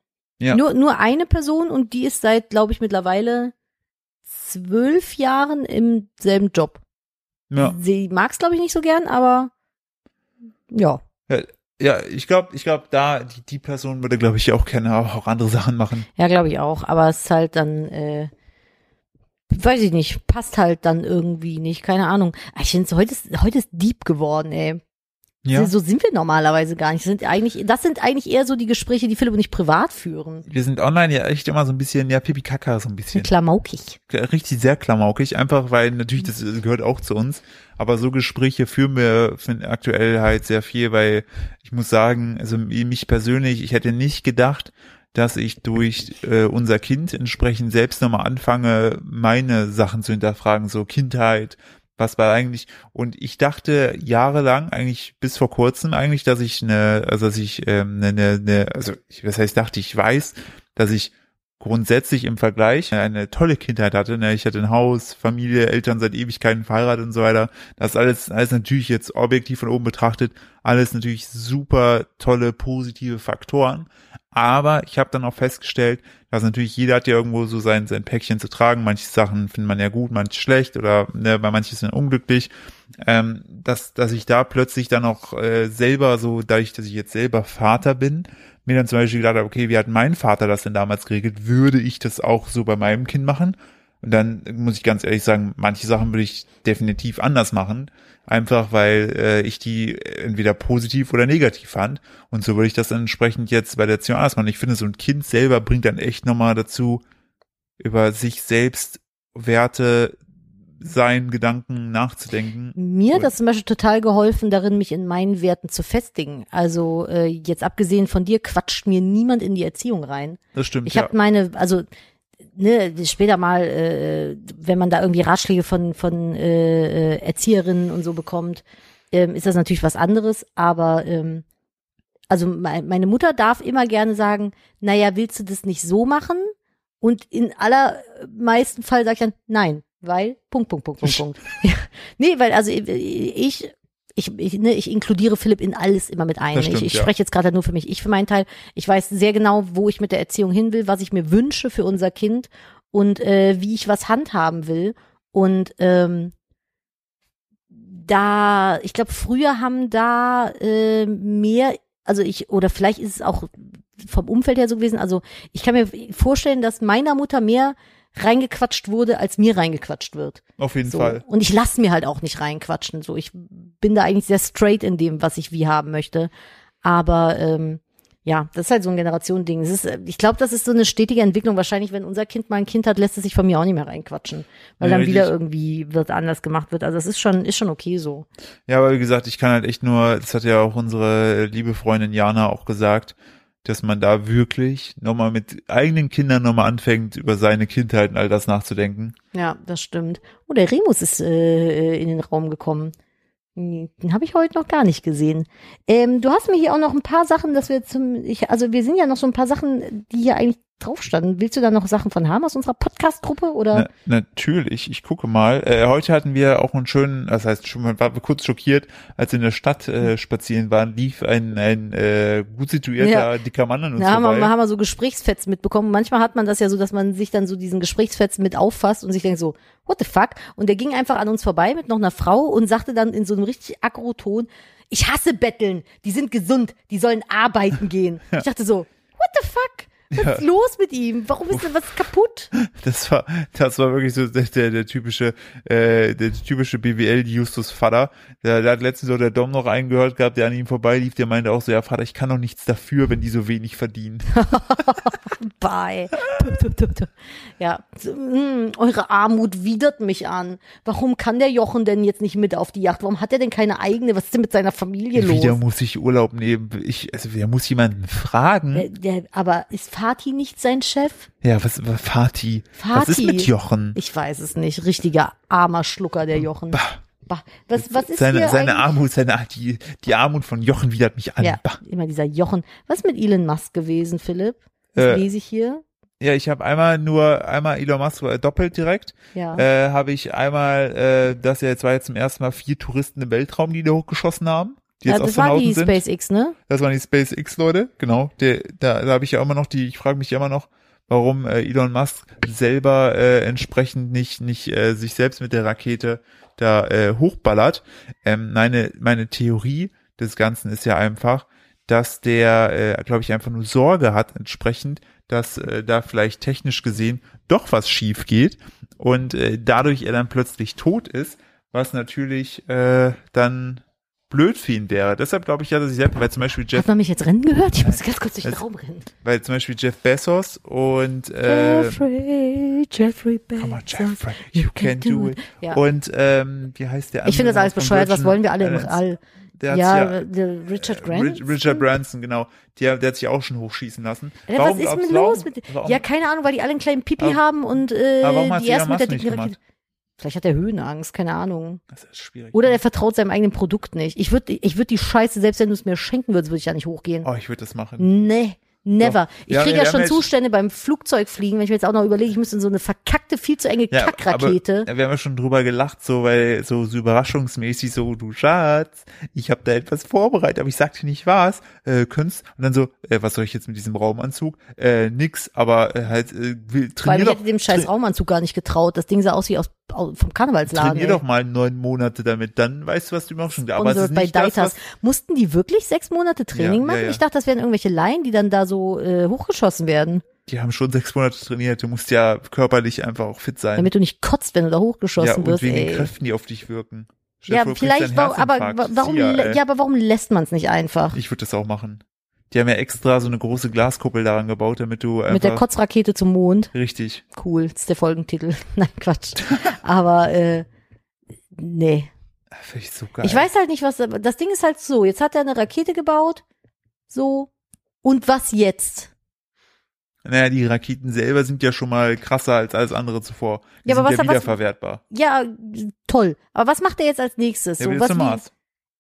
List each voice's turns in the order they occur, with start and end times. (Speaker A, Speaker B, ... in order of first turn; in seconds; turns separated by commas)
Speaker A: 0.5-3.5, Speaker A: 4.3-6.8, Speaker B: 7.5-7.8, Speaker A: 7.6-9.5, Speaker A: 10.7-11.0, Speaker B: 11.3-16.1, Speaker A: 16.2-18.3, Speaker A: 19.5-24.8, Speaker B: 25.4-25.7, Speaker A: 25.5-30.5, Speaker B: 30.5-33.3, Speaker A: 33.1-34.0, Speaker B: 34.1-82.5, Speaker B: 83.0-107.0, Speaker B: 107.8-110.2, Speaker B: 110.8-113.3, Speaker A: 112.8-121.8, Speaker B: 120.6-121.1, Speaker A: 122.5-131.4, Speaker A: 132.3-156.3, Speaker B: 146.5-147.1, Speaker A: 157.7-176.3, Speaker B: 170.6-171.2, Speaker A: 176.8-188.3, Speaker B: 184.8-185.3, Speaker B: 188.7-199.1, Speaker A: 199.3-202.9, Speaker A: 203.6-213.9, Speaker B: 213.7-224.5, Speaker A: 223.0-223.3, Speaker A: 224.0-242.5, Speaker B: 240.1-240.4, Speaker B: 242.5-254.5, Speaker A: 254.3-265.6, Speaker B: 265.1-268.9, Speaker A: 268.7-271.3, Speaker B: 271.4-274.0, Speaker A: 272.8-278.9, Speaker B: 276.7-277.0, Speaker B: 277.8-281.8, Speaker A: 281.4-285.8, Speaker B: 284.9-285.2, Speaker B: 286.2-296.0, Speaker A: 289.3-289.6, Speaker A: 295.1-296.6, Speaker B: 296.7-326.9, Speaker A: 326.7-329.1, Speaker B: 327.8-328.6, Speaker B: 329.2-332.1, Speaker A: 331.5-335.8, Speaker B: 333.6-339.0, Speaker A: 337.2-341.9, Speaker B: 339.6-340.3, Speaker B: 340.8-346.0, Speaker A: 344.5-349.6, Speaker B: 348.2-349.6, Speaker A: 350.2-351.8, Speaker B: 351.9-352.8, Speaker A: 352.5-357.3, Speaker B: 357.2-358.1, Speaker A: 358.0-364.9, Speaker B: 359.0-360.3, Speaker B: 363.9-377.9, Speaker A: 377.0-381.2, Speaker B: 380.7-384.8, Speaker A: 383.7-390.2, Speaker B: 386.5-387.2, Speaker B: 390.5-393.9, Speaker A: 393.8-396.1, Speaker B: 395.2-399.6, Speaker A: 397.5-401.2, Speaker B: 401.1-405.6, Speaker A: 405.3-406.7, Speaker B: 406.7-407.2, Speaker A: 407.4-410.6, Speaker A: 411.5-412.1, Speaker B: 412.6-413.5, Speaker A: 413.2-416.4, Speaker A: 417.1-417.5, Speaker A: 418.0-419.1, Speaker B: 420.2-425.0, Speaker A: 423.9-424.6, Speaker A: 425.1-428.4, Speaker B: 427.8-428.5